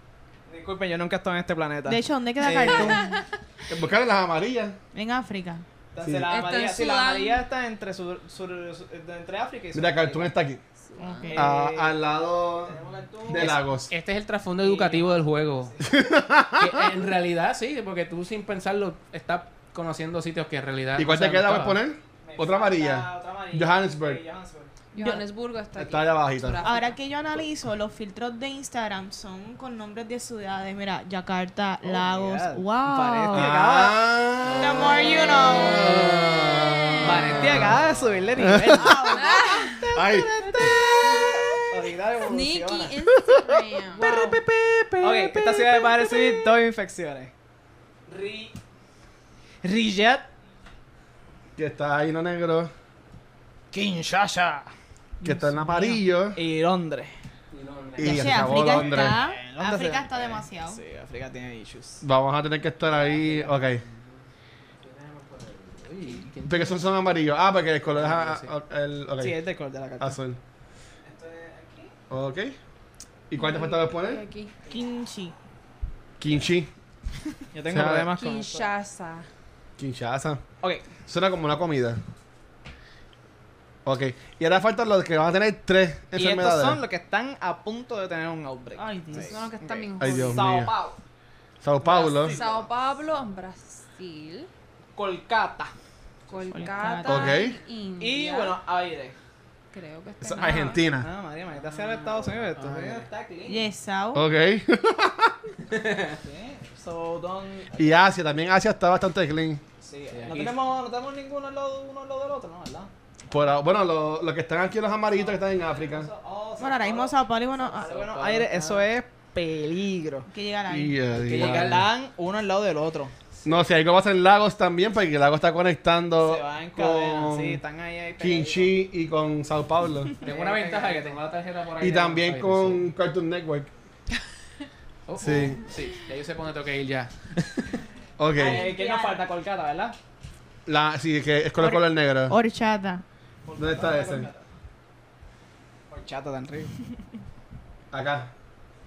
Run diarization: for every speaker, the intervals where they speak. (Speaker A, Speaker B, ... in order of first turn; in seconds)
Speaker A: 0.5-3.1, 5.9-10.3, 11.2-12.0, 12.6-13.6, 14.6-16.0, 22.2-24.7, 31.8-34.0, 37.0-39.2, 40.4-43.0, 44.0-44.2, 45.0-47.3, 48.1-48.5, 49.6-50.3, 53.7-54.6, 56.3-57.1, 58.6-62.0, 69.2-70.2, 71.0-72.0, 77.5-78.7, 86.1-91.0, 91.8-92.7, 95.0-95.7, 98.0-99.2, 100.6-103.7, 106.1-108.0, 109.8-112.9, 115.1-120.3, 121.3-123.7, 126.2-128.7, 130.2-131.2, 138.4-139.9, 143.5-144.5, 145.9-146.8
Speaker B: 1.9-3.2, 4.9-5.6, 11.0-11.4, 25.0-25.2, 26.6-33.5, 34.5-36.0, 38.6-39.9, 40.5-41.0, 58.0-60.8, 74.7-75.3, 88.8-89.5, 96.5-97.4, 103.5-104.2, 116.6-117.9, 120.3-121.0, 138.3-139.2, 141.6-143.0
Speaker C: 2.9-3.2, 6.3-7.5, 10.9-11.3, 24.9-26.9, 39.1-40.0, 42.2-44.4, 73.4-74.5, 78.1-79.2, 89.2-90.5, 92.2-94.5, 96.3-98.5, 99.7-100.8
Speaker D: 3.7-4.8, 6.0-6.3, 9.7-10.6, 11.3-12.8, 13.3-13.9, 15.8-16.8, 21.0-24.2, 25.8-26.6, 33.3-37.8, 38.4-39.1, 39.9-41.3, 43.1-45.4, 51.6-52.7, 55.2-56.4, 58.0-59.2, 62.0-63.8, 66.5-69.4, 70.0-70.4, 72.1-72.5, 73.3-74.2, 76.2-76.7, 77.7-78.1, 79.8-80.4, 81.1-82.0, 83.8-86.8, 90.0-90.7, 91.6-92.4, 97.0-97.6, 100.2-101.1, 104.1-105.5, 107.8-109.6, 113.3-116.1, 120.7-121.9, 123.5-127.6, 128.2-130.1, 131.8-133.7, 135.2-135.6, 138.2-138.7, 140.7-142.4, 143.6-144.3, 147.9-148.3
Speaker E: 13.4-15.7, 16.6-21.8, 37.0-37.9, 57.5-58.8, 62.9-64.2, 64.8-66.8, 67.9-68.5, 101.5-103.1, 105.7-106.2, 110.1-110.5, 117.8-118.8, 121.1-121.9, 130.2-132.9, 135.1-137.8